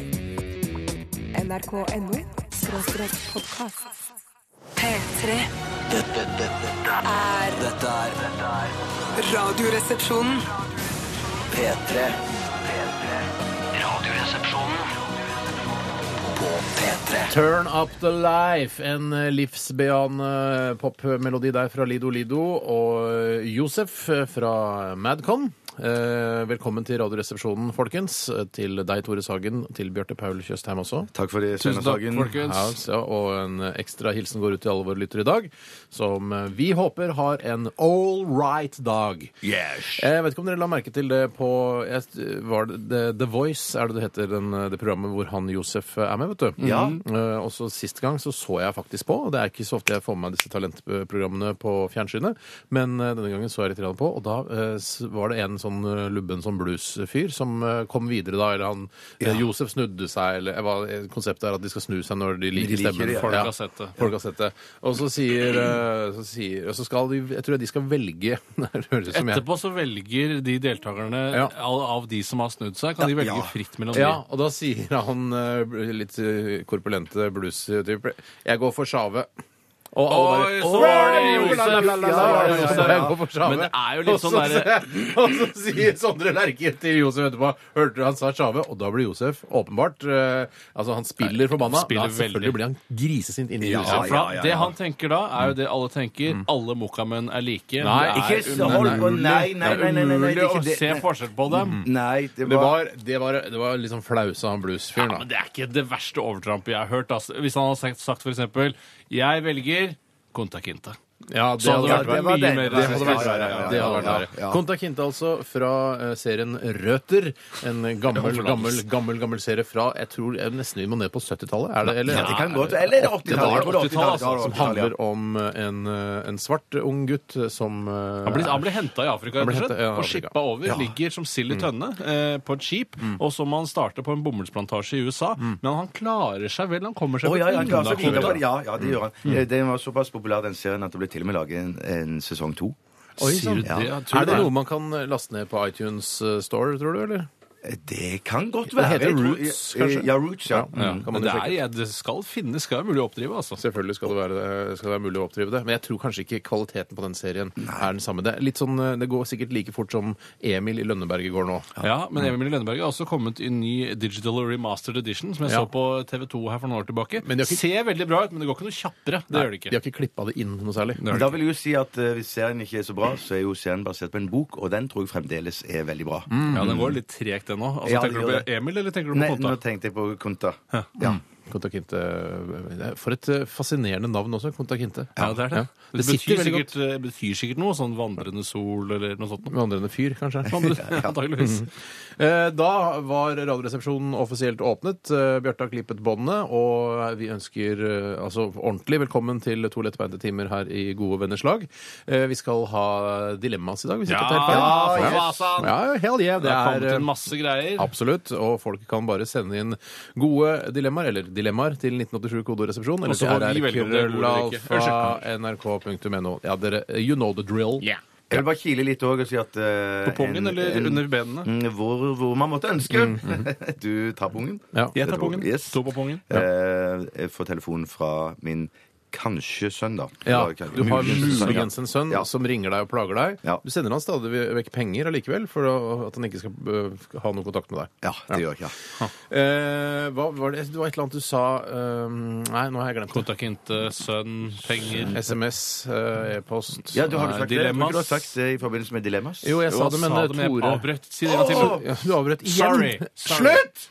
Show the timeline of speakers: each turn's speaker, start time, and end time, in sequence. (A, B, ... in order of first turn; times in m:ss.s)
0:01.3-0:03.9 A
0:04.8-0:05.5 A
0:05.9-0:07.0 B
0:07.0-0:07.6 A
0:07.5-0:08.8 B
0:09.2-0:10.5 A
0:11.5-0:15.0 B
0:16.2-0:17.3 B
0:17.3-0:31.1 C
0:31.1-0:32.4 D
0:31.6-0:32.8 E
0:32.4-0:39.4 C
0:39.4-0:40.0 D
0:40.0-1:09.4 C
0:46.6-0:47.0 E
0:46.6-0:47.0 D
1:02.5-1:03.5 D
1:03.0-1:04.0 E
1:09.1-1:14.2 E
1:13.0-1:13.5 D
1:13.9-1:19.3 C
1:19.9-1:34.1 C
1:20.1-1:24.9 E
1:20.6-1:23.2 D
1:31.2-1:32.6 E
1:33.6-1:34.8 D
1:33.8-1:41.8 E
1:37.8-1:39.8 C
1:38.1-1:42.8 D
1:41.6-1:41.8 C
1:42.4-1:45.2 C
1:45.0-1:51.0 E
1:51.3-2:08.8 C
1:51.6-1:54.3 E
1:51.8-1:54.6 D
1:58.1-1:58.8 E
2:02.0-2:04.9 D
2:02.0-2:02.5 E
2:03.3-2:04.8 E
2:08.2-2:18.4 E
2:09.4-2:10.3 C
2:10.6-2:10.9 D
2:17.2-2:22.8 D
2:17.5-2:18.4 C
2:23.2-2:27.3 C
2:23.2-2:24.5 E
2:23.6-2:24.5 D
2:27.6-2:31.0 D
2:28.7-2:31.6 C
2:30.7-2:33.6 E
2:33.6-2:41.7 C
2:37.6-2:37.9 D
2:41.8-2:49.7 E
2:47.2-2:47.6 C
2:49.3-2:51.0 C
2:51.0-2:51.3 E
2:51.1-2:56.8 D
2:56.3-2:56.9 C
2:56.5-2:59.6 E
2:57.8-2:58.5 D
2:59.1-3:01.2 D
3:00.7-3:01.1 E
3:01.5-3:06.7 C
3:05.2-3:05.4 D
3:05.2-3:09.5 E
3:09.5-3:10.8 C
3:10.5-3:11.7 E
3:10.6-3:11.2 D
3:11.4-3:27.1 C
3:24.1-3:25.7 E
3:24.4-3:25.6 D
3:26.4-3:27.9 E
3:27.8-3:37.9 C
3:33.0-3:35.2 E
3:38.3-3:52.3 D
3:40.0-3:41.5 E
3:42.9-3:43.4 C
3:44.9-3:46.4 E
3:50.2-3:58.4 C
3:50.9-3:51.6 E
3:58.0-3:58.7 D
3:59.3-4:03.2 C
4:03.1-4:05.2 E
4:05.1-4:07.0 C
4:06.9-4:09.6 D
4:07.0-4:08.3 E
4:09.4-4:13.7 C
4:09.7-4:11.9 E
4:11.2-4:11.8 D
4:12.4-4:13.7 E